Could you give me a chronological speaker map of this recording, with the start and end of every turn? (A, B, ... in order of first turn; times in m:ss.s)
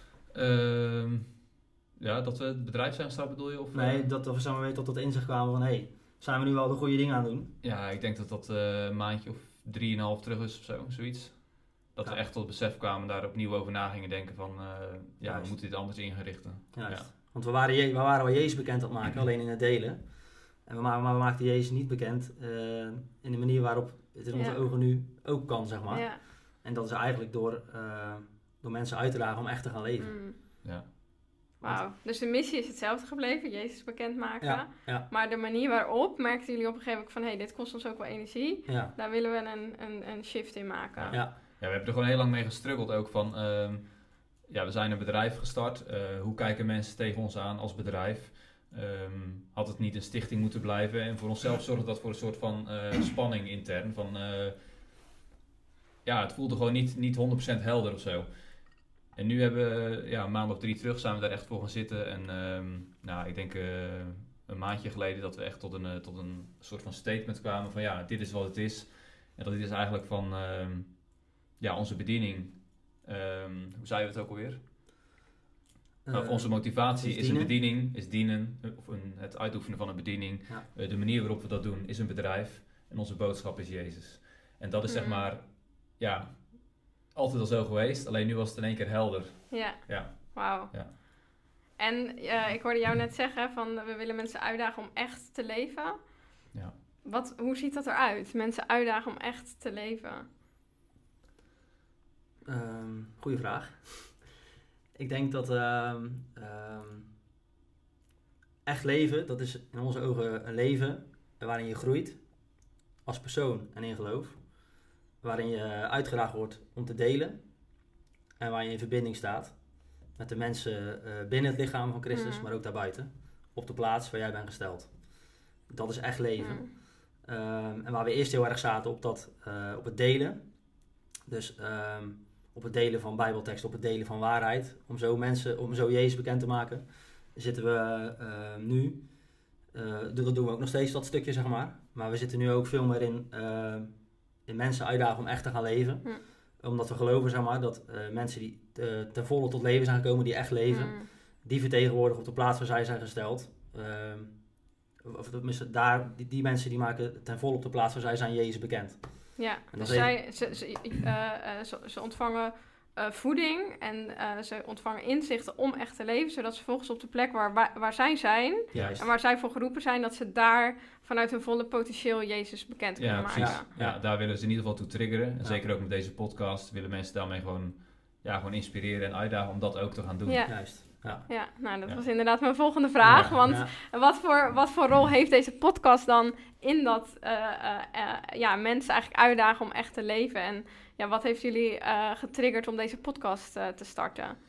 0:00.3-0:01.4 A
0:02.0-0:04.1 A
0:03.7-0:07.5 B
0:07.6-0:17.1 A
0:12.0-0:12.2 B
0:15.2-0:15.6 B
0:16.7-0:30.2 B
0:24.3-0:24.6 C
0:25.9-0:26.2 C
0:30.0-0:30.4 C
0:30.6-0:30.9 A
0:31.6-0:41.2 C
0:34.4-0:35.0 B
0:38.7-0:38.9 B
0:41.0-0:54.8 A
0:56.0-1:14.6 A
1:16.0-1:17.5 B
1:16.1-1:30.9 A
1:24.9-1:25.3 C
1:29.5-1:36.4 C
1:37.0-1:40.2 C
1:42.4-1:44.4 B
1:44.9-1:47.1 B
1:48.6-2:40.6 B
2:02.1-2:02.5 C
2:06.4-2:06.7 C
2:30.7-2:31.1 C
2:39.4-2:53.7 C
2:39.8-2:40.1 A
2:48.7-2:49.1 A
2:53.0-3:03.4 A
2:53.3-2:54.0 B
3:00.3-3:14.4 C
3:00.5-3:01.3 B
3:03.0-3:03.7 B